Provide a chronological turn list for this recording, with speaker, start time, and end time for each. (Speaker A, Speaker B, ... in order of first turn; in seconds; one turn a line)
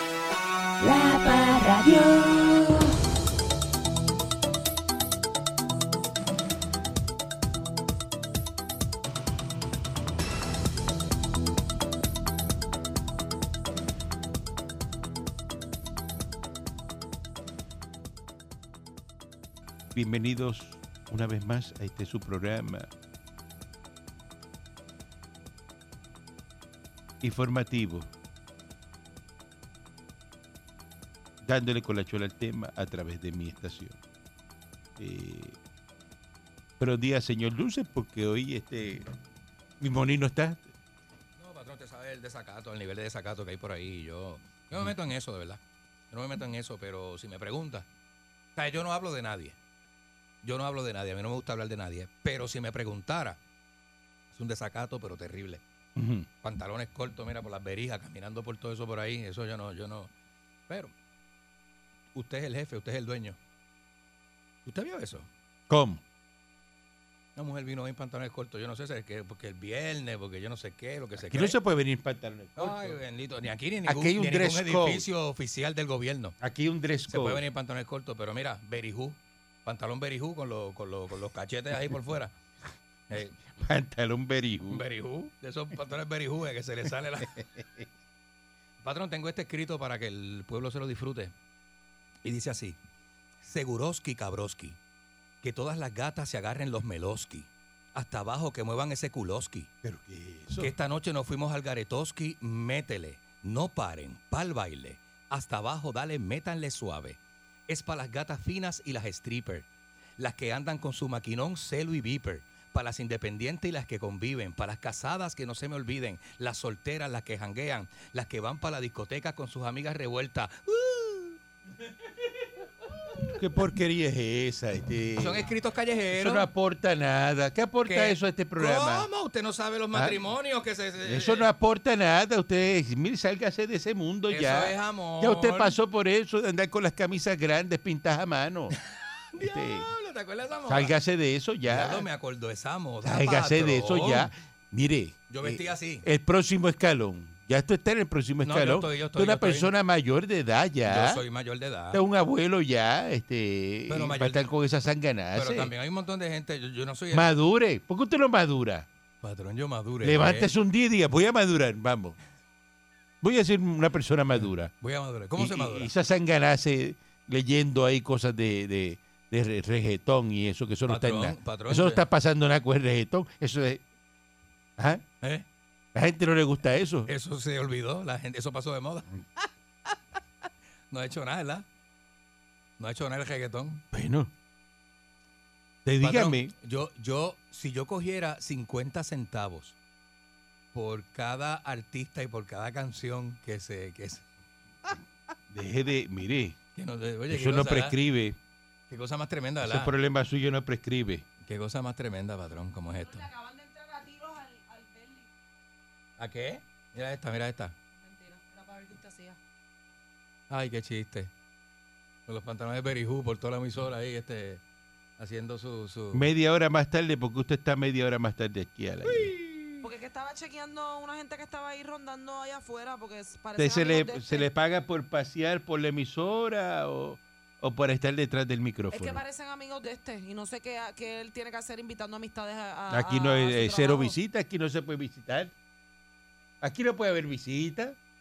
Speaker A: 0.8-2.9
Speaker B: 19.9-22.9
Speaker B: 27.2-28.1
Speaker B: 31.4-34.0
Speaker B: 35.0-35.6
Speaker B: 36.8-39.0
Speaker B: 39.8-40.7
Speaker C: 41.4-45.6
Speaker C: 46.1-47.9
Speaker C: 48.6-49.6
Speaker C: 50.4-53.4
Speaker C: 54.3-55.6
Speaker B: 56.0-56.3
Speaker C: 56.4-60.1
Speaker C: 62.1-63.4
Speaker C: 64.7-65.3
Speaker B: 65.7-66.0
Speaker C: 67.4-71.6
Speaker B: 71.2-73.0
Speaker C: 72.6-76.4
Speaker B: 73.9-75.1
Speaker B: 76.4-77.4
Speaker C: 77.1-82.3
Speaker C: 83.1-83.4
Speaker B: 83.5-84.8
Speaker C: 84.7-87.5
Speaker B: 87.2-87.9
Speaker C: 88.8-91.3
Speaker C: 92.2-92.8
Speaker C: 93.4-94.8
Speaker C: 95.4-99.7
Speaker B: 99.8-100.7
Speaker C: 100.6-109.7
Speaker C: 110.2-121.4
Speaker B: 123.4-125.5
Speaker C: 125.2-126.5
Speaker B: 126.1-129.1
Speaker C: 127.9-131.5
Speaker B: 129.9-130.2
Speaker B: 131.1-138.8
Speaker C: 134.3-135.8
Speaker C: 139.0-140.9
Speaker B: 139.4-139.9
Speaker B: 140.7-142.1
Speaker C: 141.7-144.3
Speaker B: 143.0-151.2
Speaker C: 145.3-146.1
Speaker C: 148.4-149.7
Speaker C: 150.9-152.0
Speaker B: 151.9-155.7
Speaker C: 153.9-154.5
Speaker C: 155.3-157.3
Speaker B: 157.1-158.9
Speaker C: 159.2-160.5
Speaker B: 160.0-162.2
Speaker B: 163.2-164.7
Speaker C: 164.4-165.9
Speaker B: 165.4-173.8
Speaker C: 170.9-172.0
Speaker B: 174.8-175.1
Speaker B: 175.9-177.1
Speaker C: 177.1-179.1
Speaker C: 180.9-181.7
Speaker C: 182.8-183.8
Speaker B: 183.9-184.3
Speaker B: 185.8-186.5
Speaker C: 186.0-189.8
Speaker C: 190.7-194.2
Speaker B: 195.5-196.6
Speaker C: 196.8-198.0
Speaker B: 197.3-198.4
Speaker C: 198.9-199.9
Speaker B: 199.6-201.2
Speaker C: 201.4-203.3
Speaker D: 202.9-205.3
Speaker C: 206.2-207.8
Speaker D: 208.0-209.4
Speaker C: 210.5-211.3
Speaker C: 212.3-214.6
Speaker C: 215.2-216.3
Speaker B: 216.1-219.3
Speaker C: 219.1-219.8
Speaker D: 219.8-224.5
Speaker B: 223.6-229.2
Speaker D: 228.9-234.2
Speaker B: 232.9-235.5
Speaker B: 236.6-238.0